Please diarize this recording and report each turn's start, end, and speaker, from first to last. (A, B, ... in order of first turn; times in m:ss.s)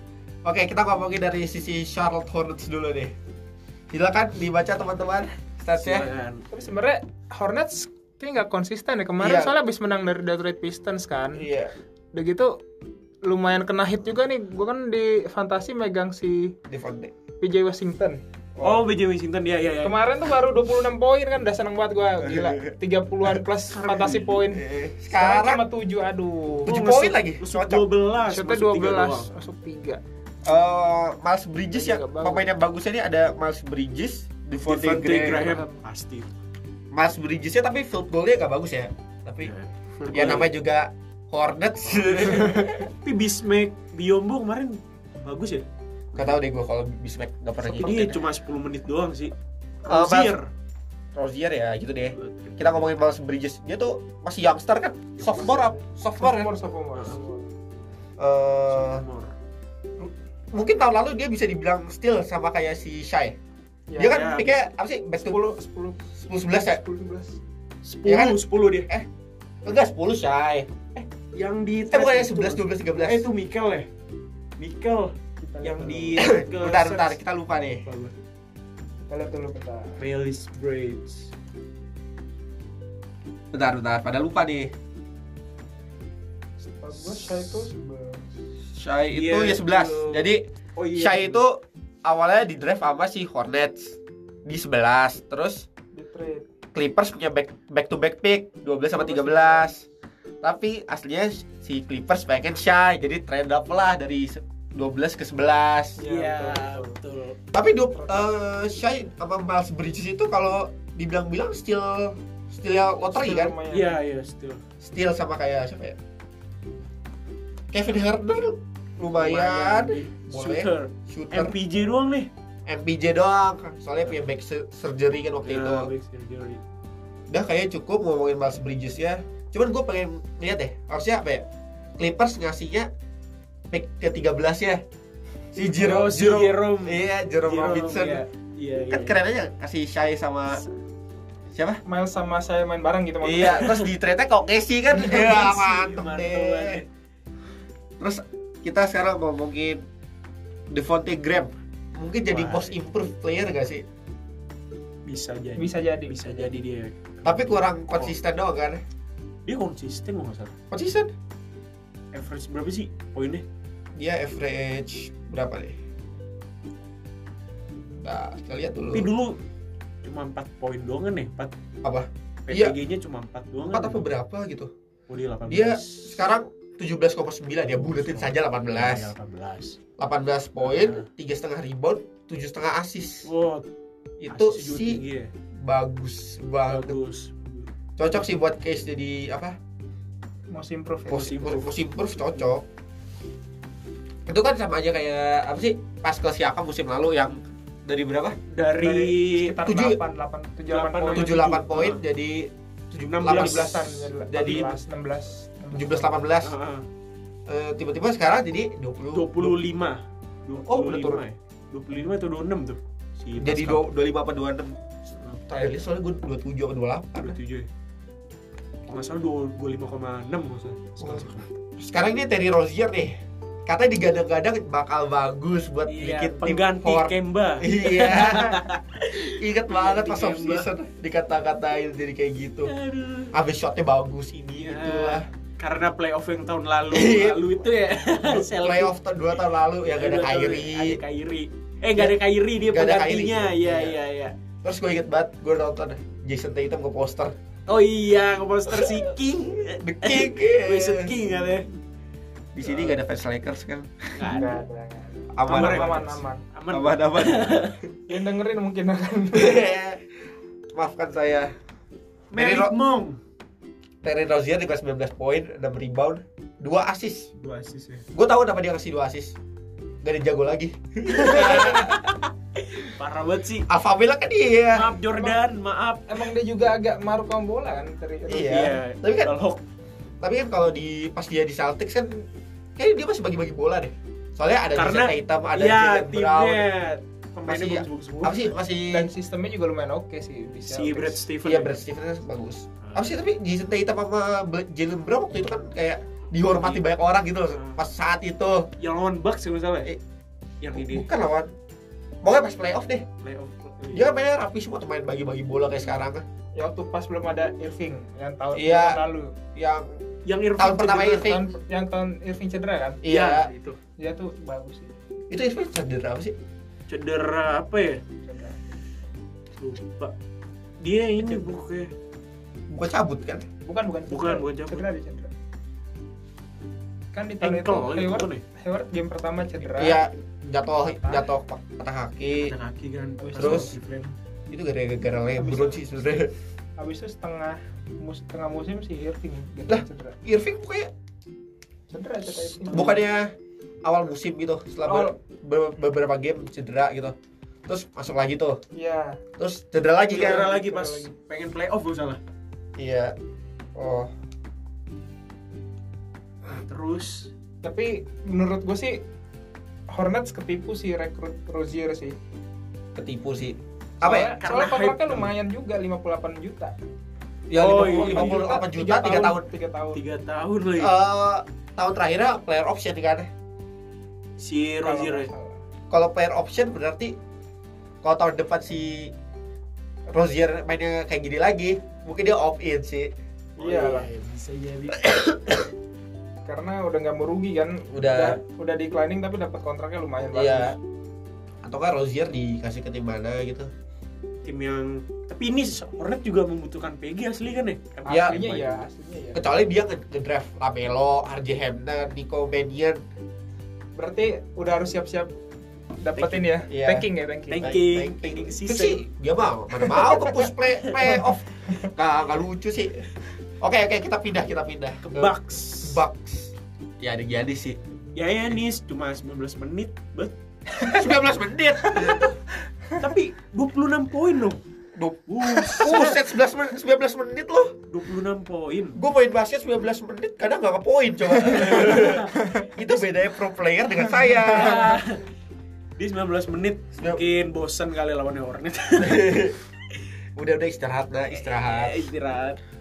0:00.4-0:03.1 A
0:03.9-0:06.1 A
0:05.8-0:06.4 B
0:06.5-0:11.5 C
0:09.2-0:09.5 A
0:11.4-0:11.7 A
0:12.1-0:12.6 C
0:13.2-0:16.6 C
0:16.7-0:17.1 A
0:17.4-0:18.2 C
0:18.6-0:18.9 A
0:18.6-0:20.0 B
0:19.8-0:26.7 C
0:22.2-0:22.7 A
0:23.7-0:24.4 B
0:24.5-0:25.6 A
0:26.7-0:27.9 A
0:26.7-0:29.3 B
0:28.3-0:30.0 C
0:30.4-0:35.6 A
0:31.7-0:32.5 C
0:34.6-0:36.3 B
0:35.4-0:35.8 C
0:36.9-0:39.5 A
0:39.4-0:40.5 B
0:40.1-0:42.9 A
0:42.1-0:46.3 B
0:46.1-0:48.2 A
0:47.7-0:50.5 B
0:49.9-0:50.4 A
0:51.2-0:56.5 A
0:52.1-0:52.8 B
0:55.2-0:55.7 B
0:56.2-0:57.5 C
0:58.2-0:59.0 A
0:58.7-0:59.4 B
1:00.0-1:03.4 A
1:03.9-1:04.3 C
1:04.0-1:05.4 A
1:04.0-1:04.6 B
1:05.2-1:07.4 C
1:06.2-1:06.8 A
1:07.8-1:08.9 B
1:08.0-1:09.1 A
1:09.6-1:11.1 A
1:11.3-1:13.9 B
1:11.9-1:13.3 A
1:14.6-1:17.2 B
1:15.4-1:16.4 C
1:16.2-1:17.8 A
1:17.8-1:18.1 B
1:19.1-1:20.0 C
1:20.0-1:21.3 B
1:23.5-1:24.7 A
1:26.7-1:28.3 C
1:27.3-1:27.6 B
1:28.7-1:35.7 A
1:29.1-1:31.4 B
1:35.9-1:36.4 C
1:36.7-1:39.9 A
1:38.9-1:39.7 C
1:40.4-1:46.0 A
1:46.0-1:47.0 C
1:46.0-1:47.4 B
1:47.5-1:53.6 A
1:47.9-1:48.3 C
1:53.0-1:54.0 C
1:53.7-1:54.6 B
1:54.8-1:56.0 A
1:57.7-2:01.6 A
1:59.1-2:02.3 B
2:02.7-2:05.9 A
2:05.5-2:06.6 B
2:07.3-2:11.5 A
2:12.0-2:12.9 A
2:13.7-2:14.8 A
2:15.5-2:18.2 A
2:15.8-2:19.2 B
2:18.9-2:20.6 A
2:21.5-2:21.8 A
2:21.9-2:23.8 C
2:23.2-2:26.8 A
2:23.4-2:23.8 B
2:24.9-2:26.9 B
2:28.0-2:29.8 A
2:30.7-2:33.8 A
2:32.3-2:32.8 B
2:35.1-2:38.1 B
2:35.6-2:36.5 C
2:37.2-2:38.8 A
2:39.5-2:40.6 B
2:40.7-2:41.1 A
2:42.1-2:43.4 B
2:44.0-2:45.8 A
2:48.0-2:49.1 A
2:48.9-2:49.4 B
2:50.0-2:51.5 B
2:51.8-2:52.8 A
2:52.5-2:54.0 B
2:53.6-2:54.7 A
2:55.1-2:56.2 B
2:55.5-2:59.1 A
2:57.8-2:59.8 B
3:00.0-3:03.3 A
3:00.6-3:01.1 B
3:03.2-3:03.7 B
3:04.2-3:05.0 A
3:04.3-3:05.3 B
3:05.6-3:07.0 A
3:06.7-3:07.7 B
3:08.0-3:09.6 A
3:10.5-3:11.4 C
3:11.1-3:12.6 A
3:11.1-3:11.7 B
3:14.3-3:18.4 A
3:18.5-3:19.6 B
3:18.8-3:21.4 C
3:19.6-3:20.0 A
3:20.7-3:22.0 B
3:21.1-3:24.8 A
3:23.0-3:23.8 B
3:23.2-3:26.2 C
3:25.7-3:26.5 A
3:26.4-3:26.9 B
3:27.5-3:29.6 A
3:29.1-3:33.8 B
3:30.7-3:31.2 C
3:30.9-3:31.2 A
3:33.4-3:34.8 A
3:35.1-3:35.5 B
3:35.5-3:37.4 A
3:37.2-3:37.7 B
3:38.9-3:41.5 B
3:41.0-3:43.2 A
3:43.7-3:48.7 A
3:45.9-3:50.7 B
3:49.3-3:52.7 A
3:52.6-3:53.4 B
3:53.3-3:55.3 A
3:54.6-3:58.9 B
3:56.9-3:57.4 A
3:58.3-4:01.0 A
3:59.8-4:04.3 B
4:02.0-4:04.0 A
4:04.6-4:07.4 A
4:07.7-4:11.7 B
4:08.7-4:09.1 A
4:09.8-4:11.2 A
4:12.5-4:14.3 A
4:12.6-4:13.0 B
4:14.2-4:14.6 B
4:14.2-4:16.4 C
4:15.3-4:16.1 A
4:15.5-4:17.8 B
4:16.7-4:17.8 A
4:18.1-4:19.7 C
4:19.3-4:20.0 A
4:20.7-4:21.5 A
4:22.3-4:23.2 B
4:22.4-4:22.7 A
4:24.0-4:27.3 A
4:27.4-4:28.1 B
4:28.1-4:29.4 A
4:30.0-4:32.0 A
4:31.1-4:33.7 B
4:33.7-4:35.0 A
4:34.7-4:36.2 B
4:36.1-4:38.7 C
4:38.3-4:39.3 A
4:38.3-4:39.6 B
4:40.2-4:42.3 A
4:42.8-4:46.7 A
4:44.8-4:48.5 B
4:47.5-4:49.1 A
4:48.9-4:51.2 C
4:50.7-4:51.8 B
4:51.4-4:58.7 A
4:52.8-4:53.2 B
4:56.5-4:56.8 B
4:57.5-4:57.8 B
4:58.8-4:59.9 B
5:00.6-5:01.1 B
5:00.7-5:01.5 A
5:02.2-5:03.1 A
5:03.2-5:04.1 B
5:03.9-5:06.2 A
5:06.6-5:09.4 C
5:08.5-5:09.0 A
5:09.6-5:10.0 A
5:10.2-5:11.4 B
5:10.6-5:11.5 A
5:11.2-5:13.0 C
5:13.0-5:13.5 A
5:13.1-5:13.8 B
5:14.0-5:15.0 C
5:15.3-5:16.4 A
5:16.9-5:18.0 B
5:18.2-5:18.7 C
5:19.6-5:20.1 B
5:20.8-5:21.9 B
5:22.7-5:23.4 A
5:23.6-5:25.3 C
5:24.1-5:24.9 B
5:27.1-5:30.0 C
5:27.4-5:28.4 B
5:29.8-5:32.6 A
5:30.8-5:31.3 C
5:32.4-5:34.2 B
5:33.2-5:33.8 C
5:33.4-5:33.7 A
5:34.5-5:36.3 A
5:35.4-5:36.3 C
5:36.8-5:40.2 C
5:39.7-5:40.9 A
5:41.9-5:43.0 C
5:42.7-5:43.0 B
5:42.7-5:47.2 A
5:44.9-5:45.2 C
5:47.7-5:48.6 A
5:48.8-5:49.2 C
5:49.4-5:50.5 A
5:50.1-5:51.1 C
5:50.1-5:52.2 B
5:52.8-5:53.2 A
5:53.8-5:54.1 A
5:56.5-5:57.3 B
5:57.6-5:59.0 C
5:59.9-6:02.2 C
6:03.0-6:04.3 A
6:04.0-6:06.8 C
6:04.1-6:05.3 B
6:07.5-6:09.5 A
6:07.6-6:08.4 B
6:07.7-6:10.0 C
6:09.9-6:11.0 B
6:10.8-6:13.3 A
6:14.4-6:15.3 B
6:14.8-6:15.6 C
6:15.9-6:17.2 A
6:18.0-6:19.1 A
6:20.1-6:23.1 A
6:23.6-6:25.6 B
6:23.6-6:24.1 C
6:26.4-6:30.8 C
6:27.9-6:28.4 A
6:30.3-6:30.8 A
6:31.6-6:33.7 A
6:34.4-6:38.8 B
6:38.1-6:39.4 C
6:38.1-6:38.5 A
6:39.4-6:43.0 A
6:44.0-6:45.3 C
6:46.0-6:47.8 C
6:46.2-6:46.5 B
6:46.7-6:47.1 A
6:47.5-6:49.0 B
6:47.6-6:53.1 A
6:53.6-6:57.8 A
6:55.0-6:56.0 B
6:58.2-7:00.3 B
7:00.8-7:02.4 A
7:03.0-7:04.6 B
7:05.0-7:07.8 A
7:05.3-7:06.2 B
7:07.9-7:09.0 B
7:09.0-7:15.0 A
7:11.6-7:12.6 B
7:14.4-7:15.2 B
7:16.0-7:19.6 B
7:17.0-7:17.2 A
7:19.0-7:19.6 A
7:20.4-7:22.1 A
7:21.3-7:22.6 B